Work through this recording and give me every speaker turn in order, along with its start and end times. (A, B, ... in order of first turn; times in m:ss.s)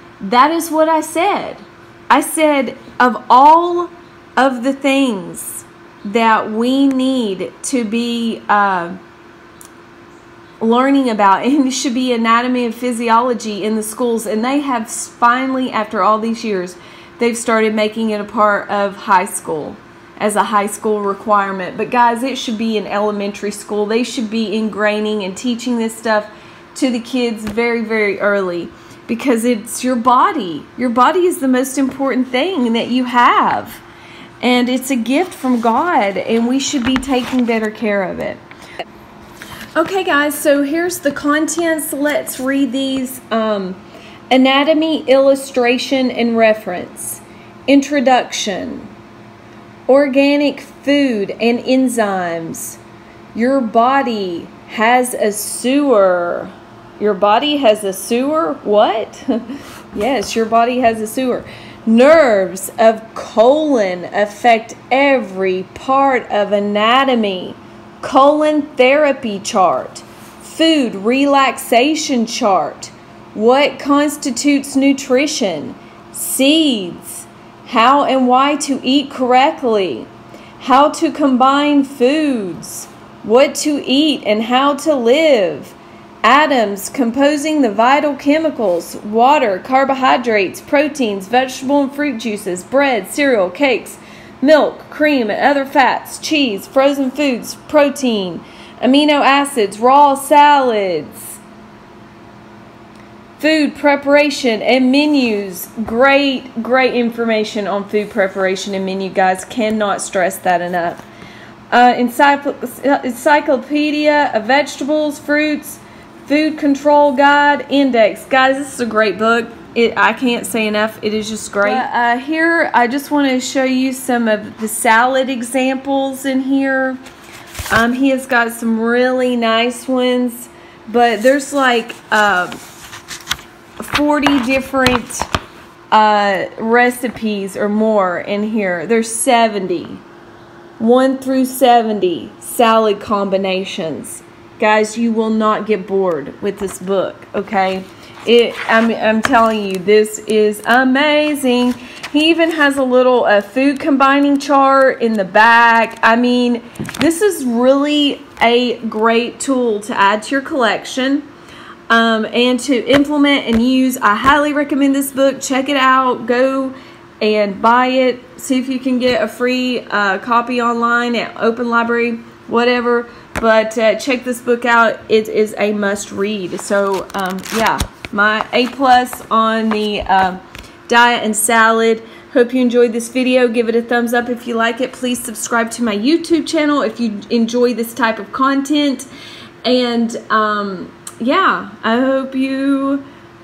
0:00.2-0:09.0 A
0:10.6-0:33.8 A
0:34.4-0:38.4 A
0:39.8-0:43.8 A
0:44.3-0:48.9 A
0:49.9-0:52.8 A
0:53.3-0:59.4 A
0:59.9-1:41.4 A
1:43.4-1:51.0 A
1:51.7-2:07.0 A
2:07.7-2:12.6 A
2:13.8-2:15.3 A
2:15.9-2:20.0 A
2:20.8-2:41.2 A
2:41.9-3:09.1 A
3:09.6-3:13.0 A